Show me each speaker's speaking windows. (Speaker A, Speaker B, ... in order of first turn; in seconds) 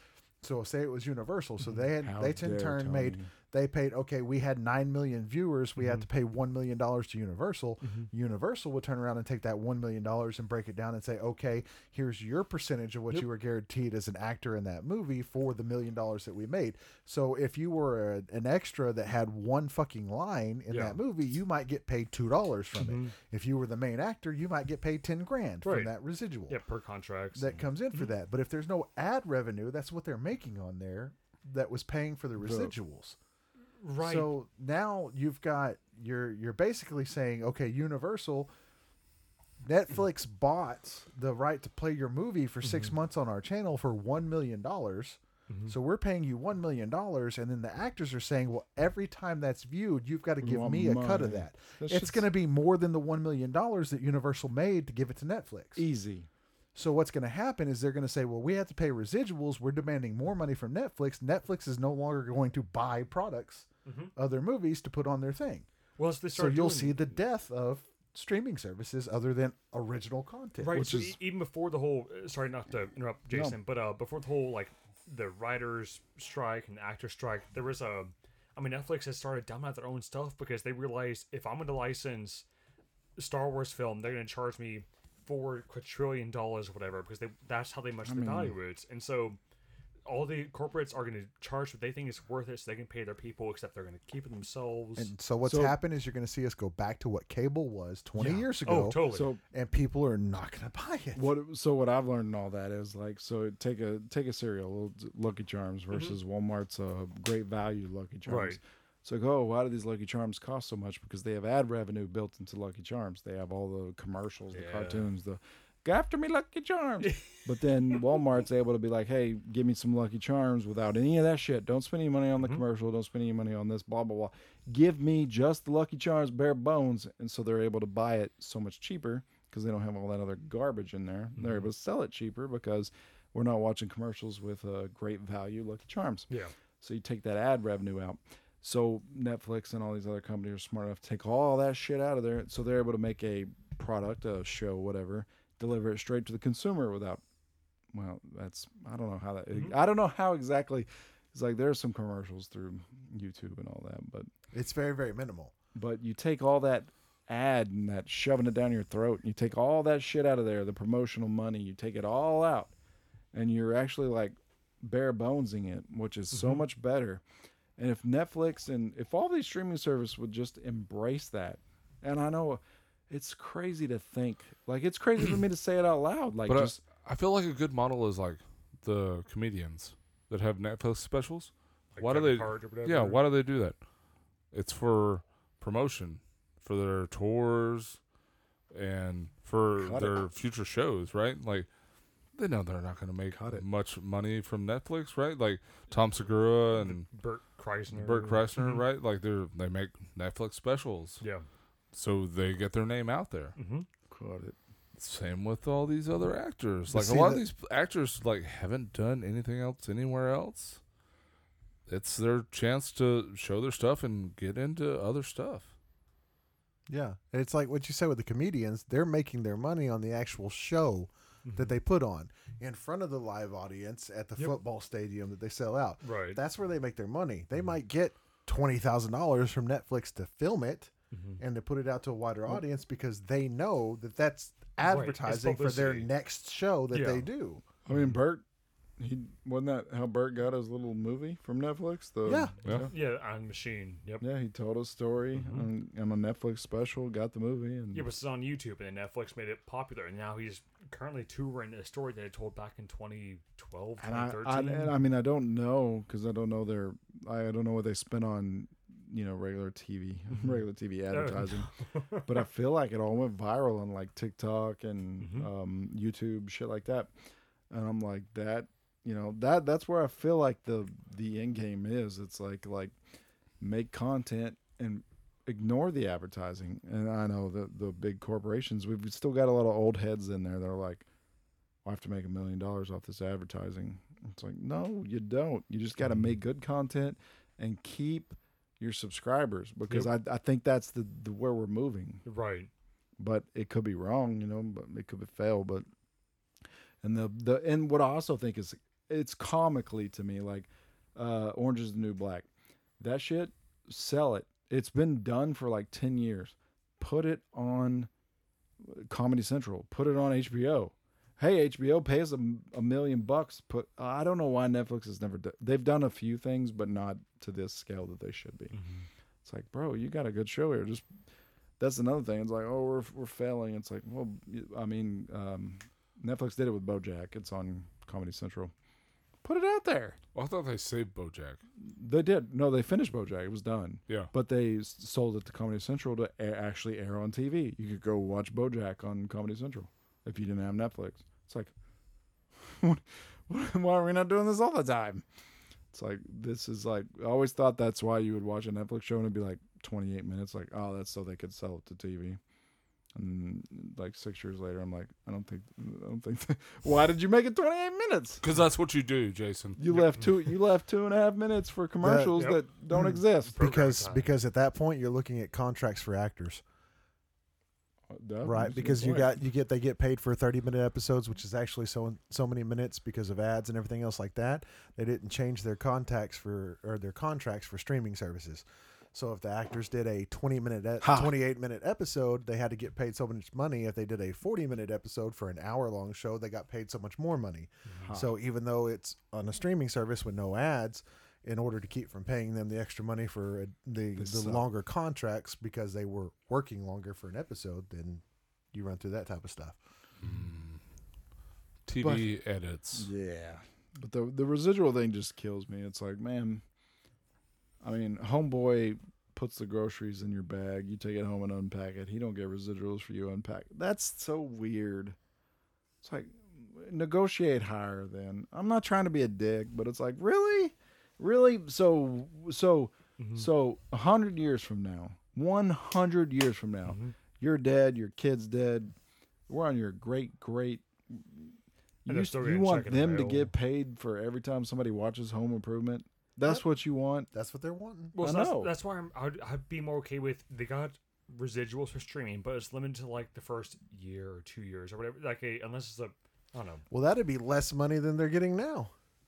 Speaker A: 0.4-26.6, 27.4-33.2, 34.0-38.5, 39.6-55.9, 56.8-65.7, 66.3-70.8, 95.0-101.3, 154.5-155.5, 206.9-207.4, 216.9-237.6, 242.2-242.5, 362.0-366.6, 368.4-398.2, 398.7-399.8, 437.3-438.1, 446.9-448.9
Speaker B: 2.0-3.3, 32.4-32.7, 50.4-52.3, 55.8-56.3, 70.7-71.2, 73.3-73.6, 88.0-88.5, 95.4-95.8, 99.1-99.4, 101.2-136.3, 136.8-147.2, 147.9-154.3, 155.8-162.7, 163.3-167.2, 167.8-176.8, 189.8-190.2, 193.3-193.6, 204.1-204.6, 237.9-238.4, 239.0-242.9, 244.2-248.1, 254.0-267.1, 267.7-272.9, 273.6-281.1, 281.8-292.2, 293.2-295.9, 297.0-302.5, 303.0-308.1, 308.8-318.8, 319.4-321.1, 321.8-328.7, 329.4-330.2, 331.8-341.7, 342.6-345.2, 345.9-352.4, 353.1-358.4, 359.8-363.6, 368.1-369.4, 381.0-381.3, 388.0-388.4, 394.2-394.7, 402.9-406.6, 407.8-415.2, 416.0-428.9, 429.5-437.3, 438.2-438.7
Speaker C: 5.8-6.1, 20.7-21.0, 22.8-23.1, 25.6-25.9, 26.5-28.1, 33.8-34.3, 42.6-42.9, 45.5-45.8, 63.9-64.1, 66.0-67.0, 70.6-82.5, 83.2-89.4, 90.1-95.1, 98.2-99.3, 105.9-106.2, 108.3-108.6, 114.5-115.1, 117.0-118.0, 131.4-131.7, 166.3-166.6, 181.9-183.2, 196.8-198.8, 201.2-201.5, 203.6-203.9, 221.4-221.8, 226.0-226.4, 231.1-231.4, 234.8-236.1, 236.9-237.3, 242.9-244.2, 245.3-245.7, 247.9-254.9, 261.1-262.4, 265.2-265.5, 292.2-292.7, 318.7-319.1, 359.9-360.3, 362.4-362.6, 363.4-364.3, 423.2-423.5, 426.9-427.1, 432.1-433.5, 438.1-446.8
Speaker D: 176.5-183.8, 184.5-188.0, 188.7-191.7, 192.3-197.1, 197.9-201.2, 201.9-203.6, 205.0-210.8, 211.9-215.7, 242.7-242.9, 330.4-331.6, 358.4-359.8, 400.2-400.8, 401.9-403.1